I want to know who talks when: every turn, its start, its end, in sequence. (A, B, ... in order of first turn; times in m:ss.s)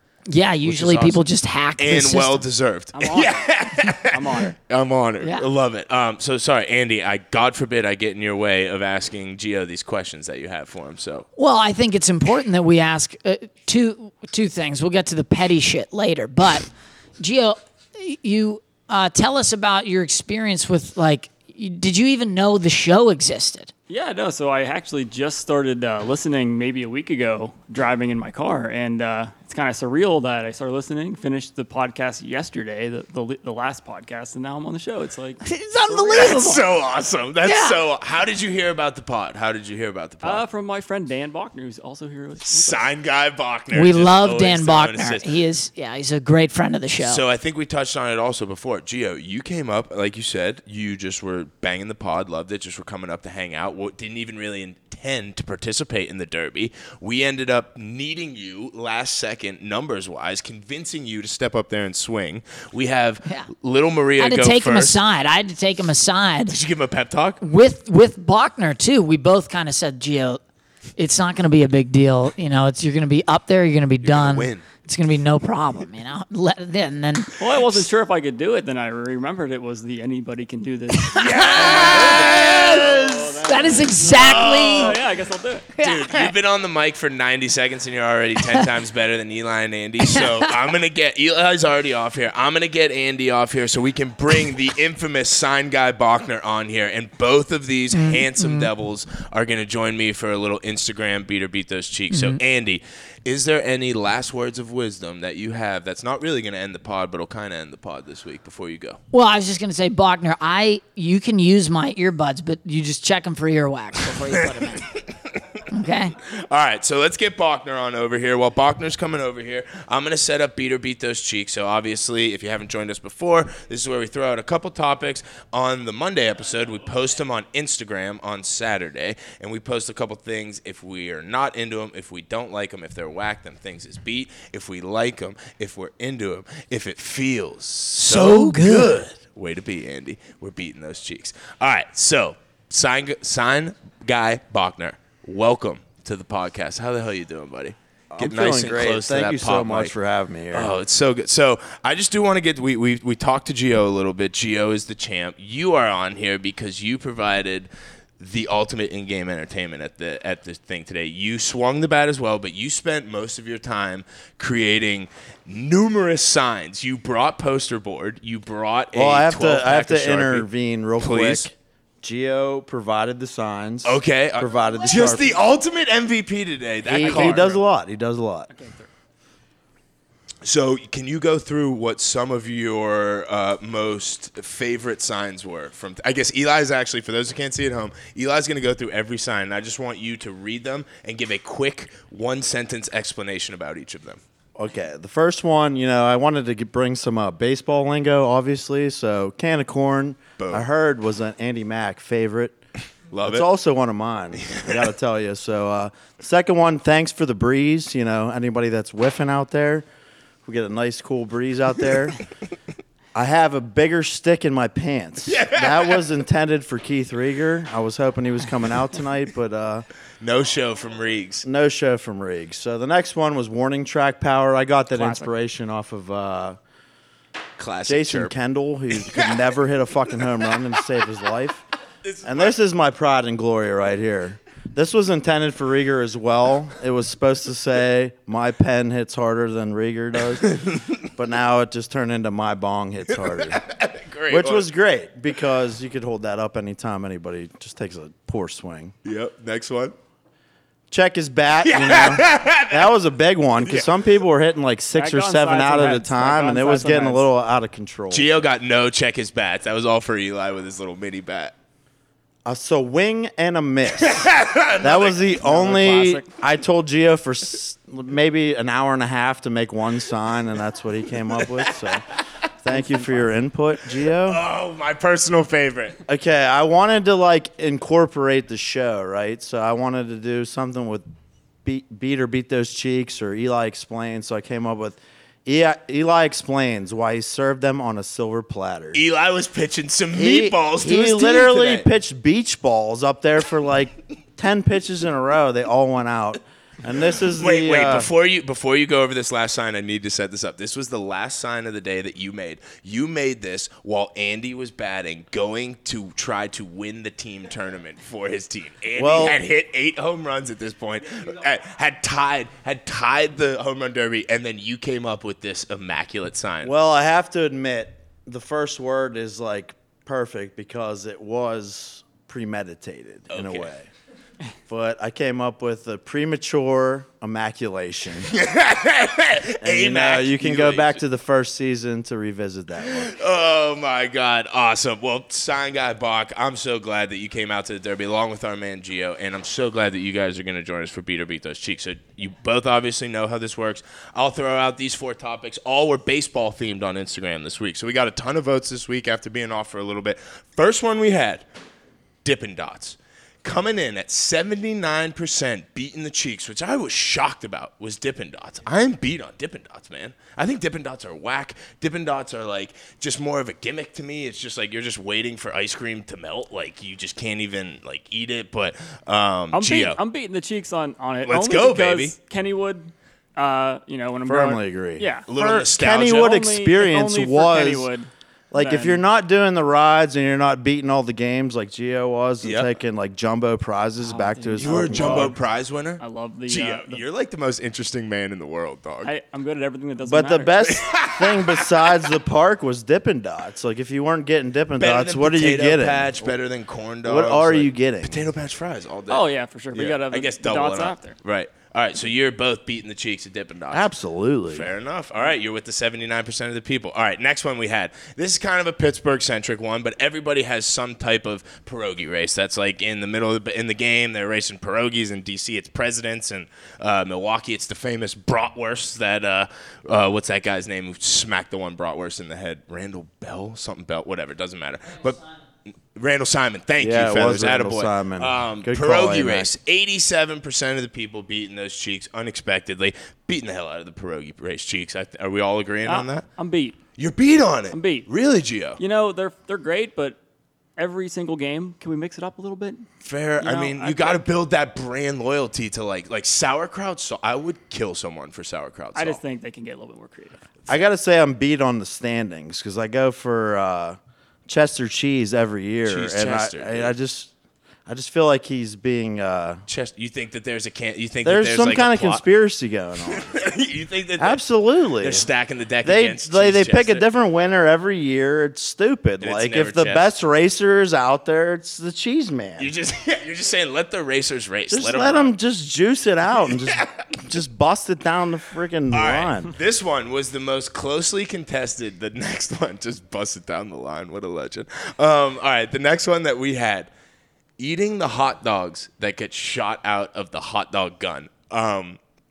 0:00.3-0:02.4 A
0:00.6-0:11.3 B
0:02.9-0:04.5 C
0:05.2-0:05.5 A
0:11.4-0:23.7 A
0:23.9-0:36.2 C
0:35.4-0:36.6 A
0:36.1-0:40.4 B
0:37.4-0:37.8 A
0:40.2-0:42.9 C
0:42.4-0:45.3 B
0:43.7-0:47.2 A
0:47.0-1:05.0 B
1:03.2-1:03.5 A
1:04.2-1:06.6 A
1:06.5-1:07.4 B
1:07.4-1:10.4 A
1:11.0-1:17.9 A
1:14.0-1:14.6 B
1:17.4-1:25.7 C
1:21.0-1:25.0 A
1:21.1-1:23.3 B
1:24.0-1:25.0 B
1:25.8-1:26.3 A
1:25.8-1:49.0 B
1:30.1-1:30.4 A
1:37.9-1:38.7 A
1:42.1-1:42.4 A
1:49.1-1:55.0 A
1:54.3-1:55.6 B
1:55.7-1:56.1 A
1:56.2-2:29.9 B
2:18.0-2:19.0 A
2:28.1-2:30.7 D
2:30.5-2:50.5 B
2:48.9-2:55.4 D
2:51.0-2:51.5 B
2:53.8-2:57.6 B
2:56.9-2:58.5 D
2:56.9-2:57.6 C
2:58.5-2:58.9 C
3:00.4-3:14.2 B
3:14.6-3:22.6 D
3:20.4-3:20.6 B
3:23.1-3:23.5 B
3:23.2-3:29.8 D
3:30.4-3:32.2 D
3:33.1-3:39.8 D
3:35.2-3:36.0 B
3:40.2-3:41.5 B
3:41.4-3:46.6 D
3:44.9-3:45.3 C
3:47.6-3:48.3 B
3:47.9-3:51.6 D
3:49.0-3:49.3 B
3:52.0-3:52.5 B
3:52.2-4:03.6 D
4:00.4-4:00.9 B
4:03.1-4:04.7 B
4:04.3-4:08.9 D
4:09.0-4:10.0 B
4:10.9-4:18.3 D
4:11.6-4:12.9 B
4:13.6-4:13.9 B
4:14.9-4:17.3 C
4:18.1-4:21.5 B
4:22.4-4:24.3 D
4:24.0-4:25.2 B
4:24.8-4:32.1 D
4:25.4-4:26.4 C
4:31.4-4:31.7 B
4:32.6-4:34.4 D
4:32.7-4:33.4 C
4:34.2-4:36.0 B
4:36.1-4:41.0 D
4:41.6-4:49.0 D
4:48.9-4:51.9 B
4:50.1-4:58.1 D
4:57.4-5:16.7 B
5:08.9-5:09.4 D
5:16.6-5:23.9 D
5:23.3-5:23.7 B
5:24.7-5:28.3 D
5:28.3-5:31.0 B
5:29.6-5:33.1 D
5:32.9-5:51.4 B
5:52.2-6:10.0 B
6:09.5-6:15.3 C
6:11.2-6:12.2 B
6:14.2-6:17.9 D
6:15.3-6:16.3 B
6:16.1-6:19.0 C
6:18.5-6:25.4 D
6:22.4-6:22.7 B
6:24.0-6:25.4 C
6:24.6-6:29.1 B
6:26.0-6:27.0 C
6:29.0-6:30.7 C
6:30.0-6:36.4 D
6:30.6-6:31.6 B
6:34.8-6:43.9 B
6:37.0-6:38.3 D
6:39.1-6:41.2 C
6:43.7-6:44.7 D
6:44.5-7:05.3 B
7:05.9-7:16.3 B
7:06.8-7:09.5 D
7:15.8-7:16.8 C
7:17.0-7:18.8 B
7:17.7-7:18.1 C
7:18.8-7:20.2 C
7:20.8-7:22.8 C
7:23.0-7:29.2 B
7:23.4-7:24.2 C
7:28.9-7:30.4 C
7:30.7-7:37.3 D
7:35.8-7:36.9 B
7:37.9-7:39.6 D
7:39.7-7:42.2 B
7:41.2-7:43.4 D
7:43.1-7:44.4 B
7:44.2-7:45.3 D
7:45.0-7:47.1 B
7:45.8-7:52.7 D
7:49.2-7:50.0 B
7:52.6-7:55.3 B
7:54.7-7:59.5 D
7:56.6-7:57.0 B
7:58.9-8:06.9 B
8:07.6-8:12.0 B